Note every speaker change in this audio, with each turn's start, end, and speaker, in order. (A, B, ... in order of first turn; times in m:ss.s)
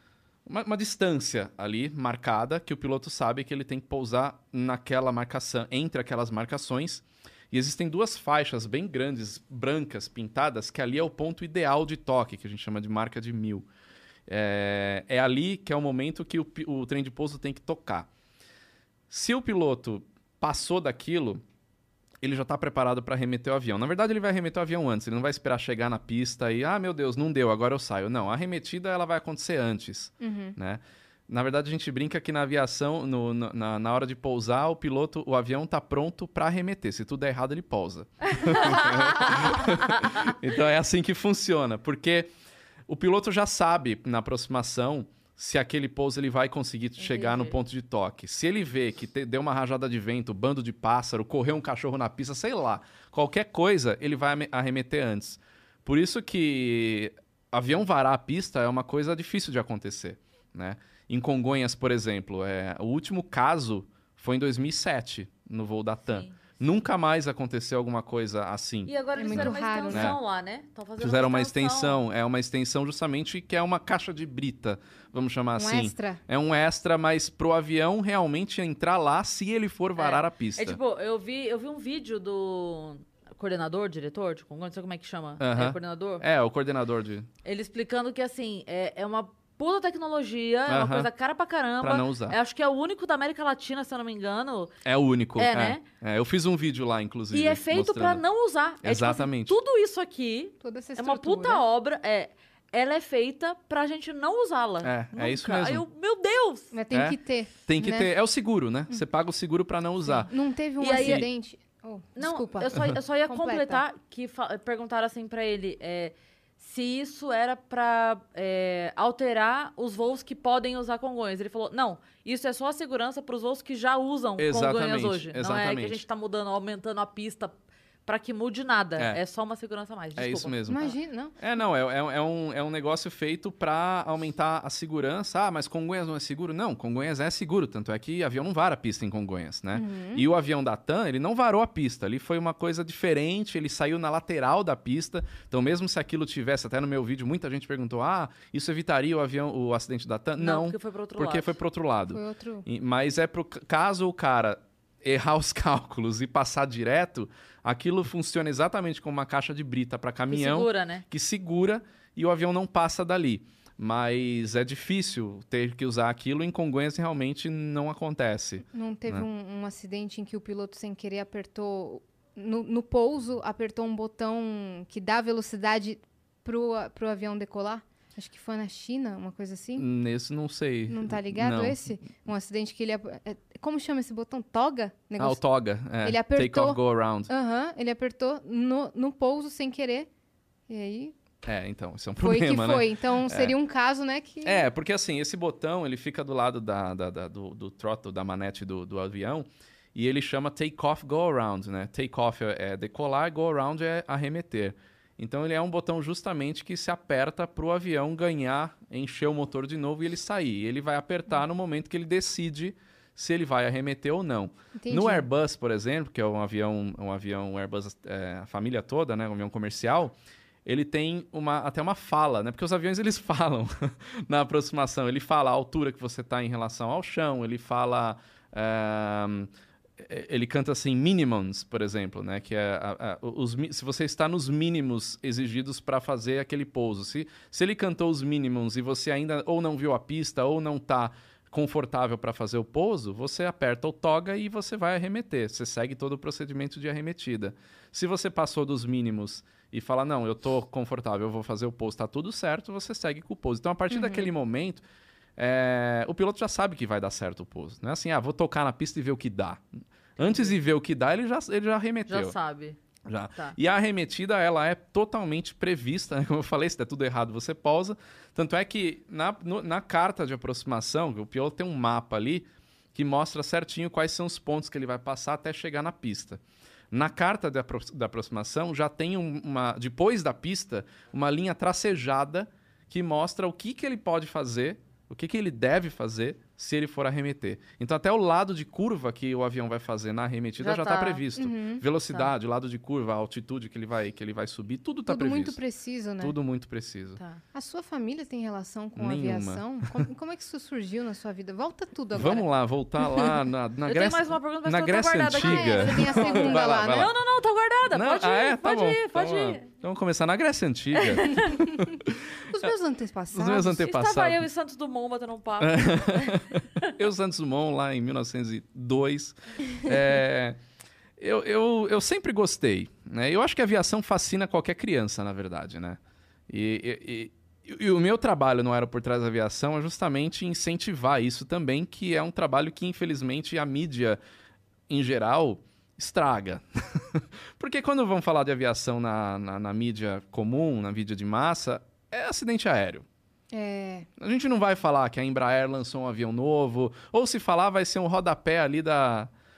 0:00.5-0:13.7 A
0:14.3-0:18.1 A
0:19.1-0:21.4 A
0:22.2-0:42.3 A
0:30.2-0:30.6 B
0:38.4-0:40.1 C
0:42.9-1:10.2 A
0:47.0-0:47.6 C
1:08.9-1:12.0 C
1:09.2-1:10.1 B
1:11.0-1:20.8 A
1:15.6-1:16.2 B
1:20.0-1:26.2 C
1:25.4-1:27.3 A
1:27.4-1:34.7 C
1:30.7-1:31.1 A
1:31.8-1:32.4 A
1:34.8-1:38.2 A
1:35.4-1:35.8 C
1:37.3-1:46.7 C
1:38.8-1:39.6 A
1:40.6-1:41.6 B
1:44.8-1:45.8 A
1:46.7-1:48.1 B
1:46.9-1:50.3 A
1:50.1-1:53.8 B
1:50.8-1:51.3 C
1:50.8-1:51.3 A
1:52.2-2:10.6 C
2:04.4-2:06.0 A
2:10.1-2:49.3 A
2:10.7-2:11.4 B
2:19.7-2:20.3 B
2:30.4-2:31.5 C
2:32.1-2:32.6 B
2:40.3-2:41.0 C
2:48.7-2:59.9 B
2:59.8-3:01.8 A
3:00.9-3:05.4 B
3:05.2-3:07.3 A
3:06.0-3:10.1 B
3:10.7-3:11.1 B
3:11.4-3:13.6 A
3:12.2-3:14.6 B
3:14.4-4:14.8 A
3:34.8-3:35.3 B
4:13.9-4:14.2 B
4:15.4-4:19.6 A
4:20.2-4:20.6 C
4:20.2-4:22.3 A
4:22.1-4:22.8 C
4:23.1-4:55.6 A
4:50.6-4:51.2 C
4:51.4-4:51.8 B
4:55.1-4:56.4 B
4:56.2-4:57.2 A
4:57.5-5:02.5 B
4:59.0-5:00.0 A
5:02.1-5:07.1 A
5:03.0-5:03.3 B
5:03.8-5:09.7 C
5:05.4-5:07.1 B
5:07.9-5:12.2 A
5:11.0-5:11.5 C
5:11.4-5:12.0 B
5:12.5-5:13.8 B
5:13.3-5:14.4 A
5:13.8-5:16.9 C
5:15.6-5:20.6 A
5:21.2-5:34.2 A
5:34.9-5:43.0 A
5:43.5-5:44.1 B
5:44.2-5:49.3 A